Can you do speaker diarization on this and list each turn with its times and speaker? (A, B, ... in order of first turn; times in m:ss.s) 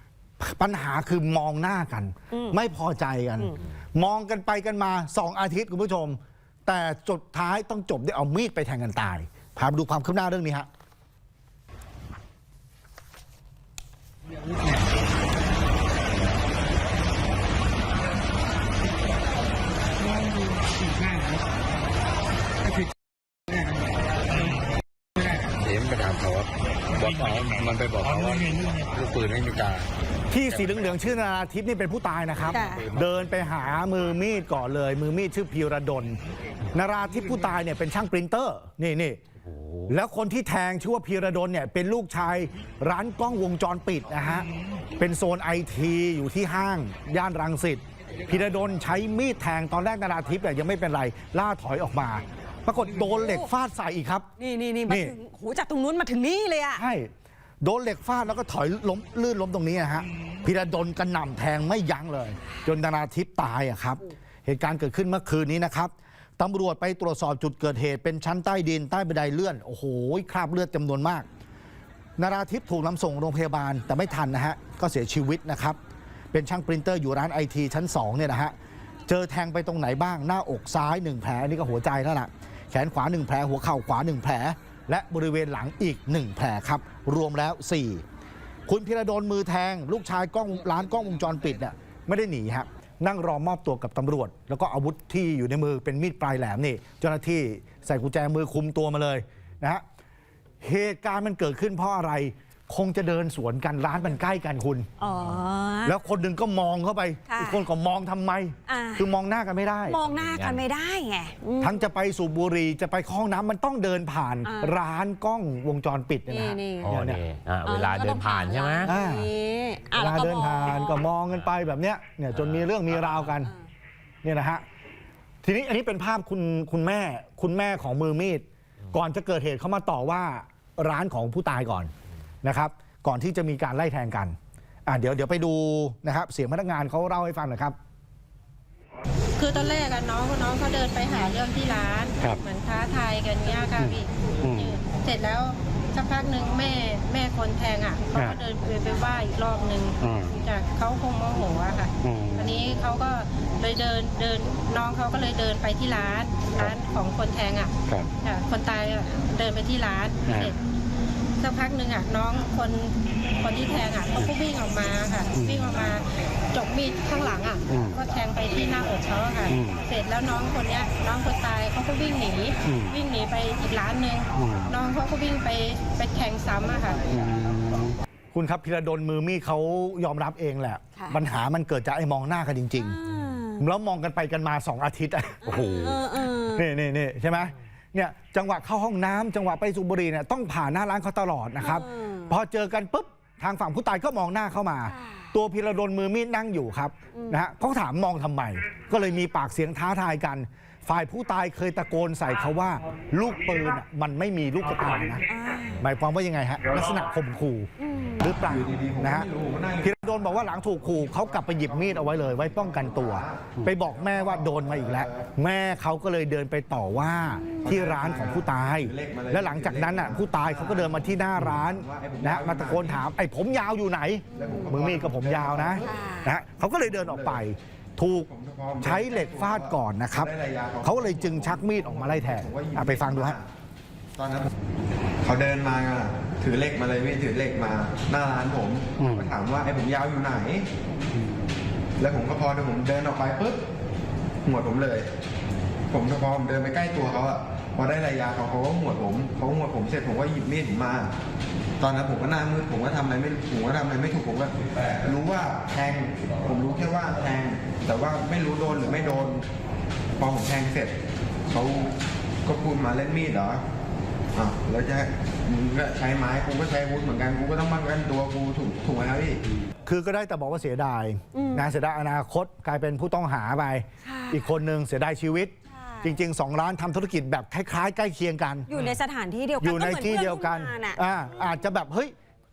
0:00.4-0:10.7 A
0:02.3-0:02.6 B
0:25.5-0:29.9 C
0:30.3-0:36.2 A
0:30.5-0:30.9 C
0:32.5-0:32.8 B
0:32.6-0:33.1 C
0:36.7-0:39.2 A
0:39.4-0:39.8 D
0:39.8-0:44.5 A
0:45.0-0:54.3 A
0:52.9-0:53.5 B
0:54.4-0:56.8 B
0:54.9-0:55.1 A
0:56.8-1:11.2 A
1:12.2-1:15.8 A
1:16.3-1:18.5 A
1:19.1-1:28.0 A
1:28.7-1:39.8 A
1:40.6-1:44.9 A
1:45.0-1:46.0 B
1:45.8-1:50.0 A
1:47.3-1:47.7 B
1:48.7-1:49.1 B
1:49.8-1:51.8 B
1:50.0-1:50.6 D
1:51.6-1:57.2 A
1:54.4-1:54.8 B
1:56.3-1:57.0 B
1:56.8-1:58.9 D
1:57.6-2:01.1 B
1:58.8-1:59.3 A
1:59.9-2:03.5 A
2:02.3-2:02.7 D
2:04.2-2:04.6 A
2:05.4-2:11.9 A
2:12.4-2:17.7 A
2:19.4-2:40.6 E
2:24.4-2:24.7 C
2:30.0-2:30.4 C
2:32.0-2:32.5 C
2:41.4-2:57.2 E
2:45.4-2:45.7 C
2:49.5-2:49.8 C
2:54.4-2:54.7 C
2:57.1-2:57.9 C
2:58.3-3:03.0 A
3:01.0-3:01.2 B
3:02.8-3:03.6 B
3:03.6-3:25.2 A
3:05.4-3:06.7 B
3:11.6-3:12.3 B
3:14.9-3:15.3 B
3:17.1-3:17.4 B
3:25.3-3:25.9 B
3:25.8-3:29.3 A
3:27.8-3:28.8 B
3:28.8-3:29.8 F
3:29.8-3:48.3 A
3:31.0-3:32.4 F
3:34.0-3:34.8 F
3:34.8-3:35.2 B
3:37.5-3:38.2 B
3:37.6-3:39.3 F
3:39.3-3:40.8 B
3:40.0-3:40.4 F
3:40.9-3:42.6 F
3:41.9-3:43.0 B
3:44.3-3:46.3 B
3:44.3-3:45.7 F
3:46.8-3:47.4 F
3:48.3-3:53.4 F
3:48.8-3:53.4 A
3:54.2-3:54.5 F
3:55.2-4:00.7 F
3:57.5-3:58.0 B
4:02.0-4:03.6 F
4:04.4-4:05.1 F
4:05.9-4:11.1 F
4:11.8-4:19.4 F
4:20.2-4:20.9 F
4:21.5-4:21.9 F
4:22.4-4:23.6 F
4:24.3-4:29.4 F
4:29.8-4:38.7 A
4:31.3-4:31.6 B
4:34.0-4:34.5 B
4:35.7-4:36.2 B
4:38.7-4:41.0 B
4:39.6-4:42.1 A